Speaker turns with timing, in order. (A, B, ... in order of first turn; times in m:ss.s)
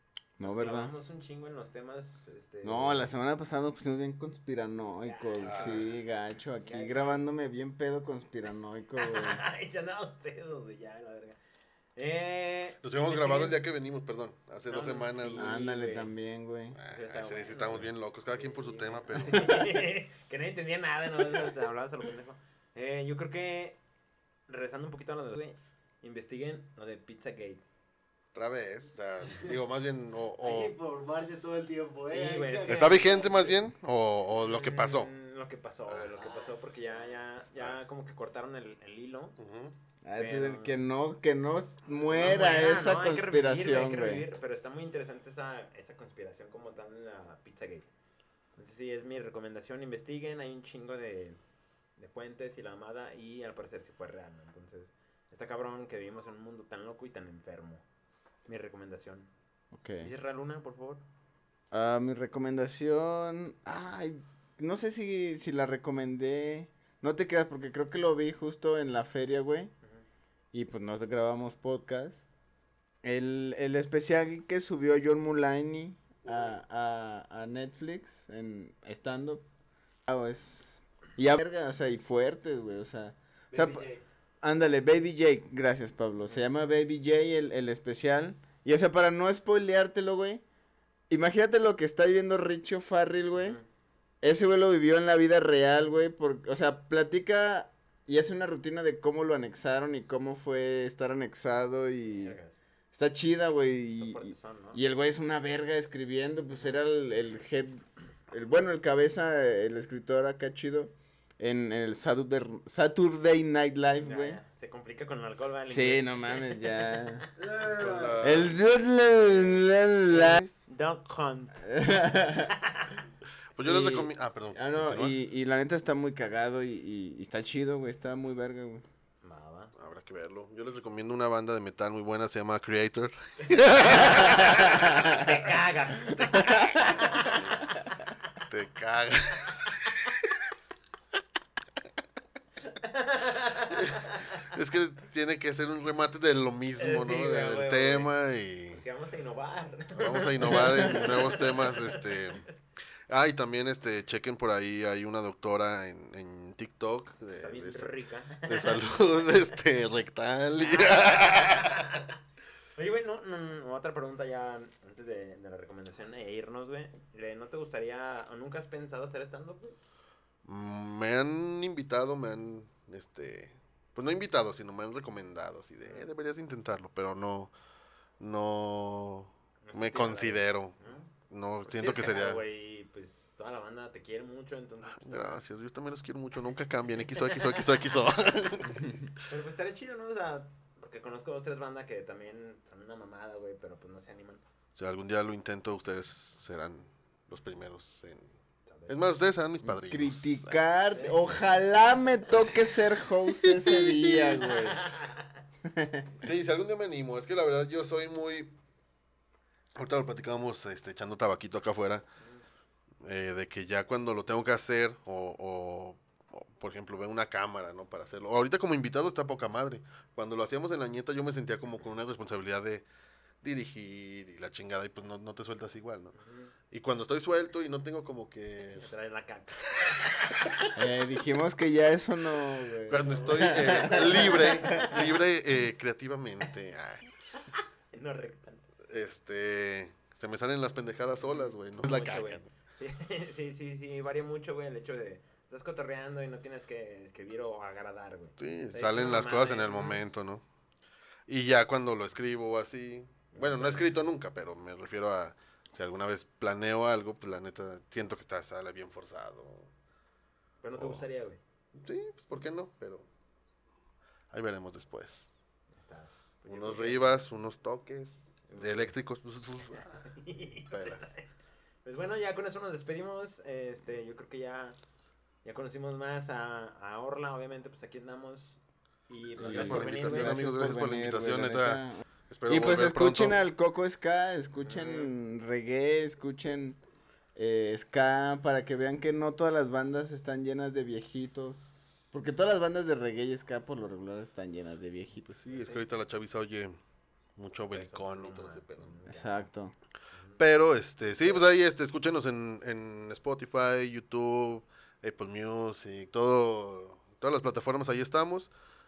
0:00.4-0:00.9 A
0:00.4-0:03.1 B
0:02.6-0:09.4 A
0:05.0-0:05.9 B
0:05.4-0:05.9 C
0:06.6-0:07.2 B
0:09.0-0:11.4 B
0:12.0-0:13.6 B
0:12.8-0:15.5 C
0:14.7-0:16.1 B
0:15.3-0:16.8 A
0:16.7-0:19.8 C
0:16.9-0:23.8 B
0:24.5-0:27.6 B
0:28.3-0:30.7 C
0:29.3-0:29.6 D
0:30.4-0:33.5 D
0:32.0-0:33.6 B
0:32.7-0:35.1 C
0:34.4-0:39.4 B
0:36.1-0:37.2 D
0:39.4-0:39.7 C
0:40.0-0:44.3 A
0:40.1-0:40.8 B
0:42.1-0:47.9 B
0:48.6-0:51.4 B
0:52.0-0:57.8 B
0:58.4-0:59.3 B
0:59.7-1:00.1 A
1:00.0-1:01.0 B
1:01.7-1:09.7 A
1:10.5-1:12.2 A
1:13.0-1:19.4 A
1:16.2-1:16.6 D
1:20.1-1:23.9 A
1:23.5-1:24.0 D
1:24.4-1:30.4 A
1:31.1-1:33.6 A
1:33.3-1:33.6 B
1:34.2-1:42.4 A
1:42.0-1:42.5 B
1:42.9-1:54.4 A
1:44.0-1:44.8 B
1:54.0-1:57.3 B
1:55.7-1:57.2 A
1:57.4-1:58.5 D
1:57.6-1:58.6 C
1:58.2-2:00.4 A
2:00.1-2:01.7 B
2:01.6-2:02.5 A
2:02.4-2:03.0 B
2:03.6-2:05.2 C
2:03.6-2:08.8 A
2:09.2-2:09.7 B
2:09.8-2:15.4 C
2:13.7-2:18.0 B
2:16.1-2:17.6 C
2:18.4-2:19.7 C
2:22.7-2:24.4 B
2:23.8-2:28.8 C
2:26.8-2:28.1 B
2:28.7-2:32.5 B
2:30.0-2:32.4 C
2:33.1-2:42.0 C
2:37.3-2:38.8 B
2:40.6-2:42.2 B
2:42.8-2:49.8 B
2:50.4-2:57.5 C
2:58.2-3:00.8 C
2:59.6-3:01.1 B
3:01.3-3:02.4 C
3:01.6-3:05.4 B
3:04.9-3:09.1 C
3:07.2-3:07.6 B
3:09.3-3:14.4 B
3:14.7-3:18.3 C
3:18.6-3:19.1 B
3:18.9-3:20.6 C
3:19.6-3:25.0 A
3:20.9-3:21.2 B
3:23.3-3:24.5 C
3:24.5-3:25.3 B
3:25.6-3:26.1 A
3:26.2-3:28.5 C
3:29.8-3:32.0 C
3:33.0-3:42.8 C
3:43.4-3:46.2 C
3:46.2-3:46.5 B
3:46.7-3:48.9 C
3:48.8-3:50.7 B
3:50.7-3:54.9 A
3:52.9-3:57.1 C
3:53.0-3:55.1 B
3:57.4-3:58.6 B
3:58.9-4:02.5 C
4:01.4-4:10.0 B
4:08.4-4:10.4 C
4:11.3-4:19.7 C
4:13.3-4:14.0 B
4:20.6-4:21.4 B
4:20.8-4:21.0 C
4:21.7-4:23.1 C
4:24.3-4:25.3 C
4:25.8-4:27.2 B
4:26.5-4:30.1 C
4:28.5-4:28.9 B
4:30.0-4:31.2 B
4:30.7-4:31.1 C
4:31.8-4:34.8 B
4:35.4-4:40.5 B
4:39.4-4:43.4 C
4:39.4-4:46.8 A
4:44.6-4:45.1 B
4:47.3-4:55.4 A
4:55.3-4:56.8 C
4:55.5-4:55.9 B
4:57.4-4:58.9 C
4:57.7-4:59.4 B
4:59.1-4:59.7 A
5:00.1-5:00.4 B
5:00.4-5:08.5 C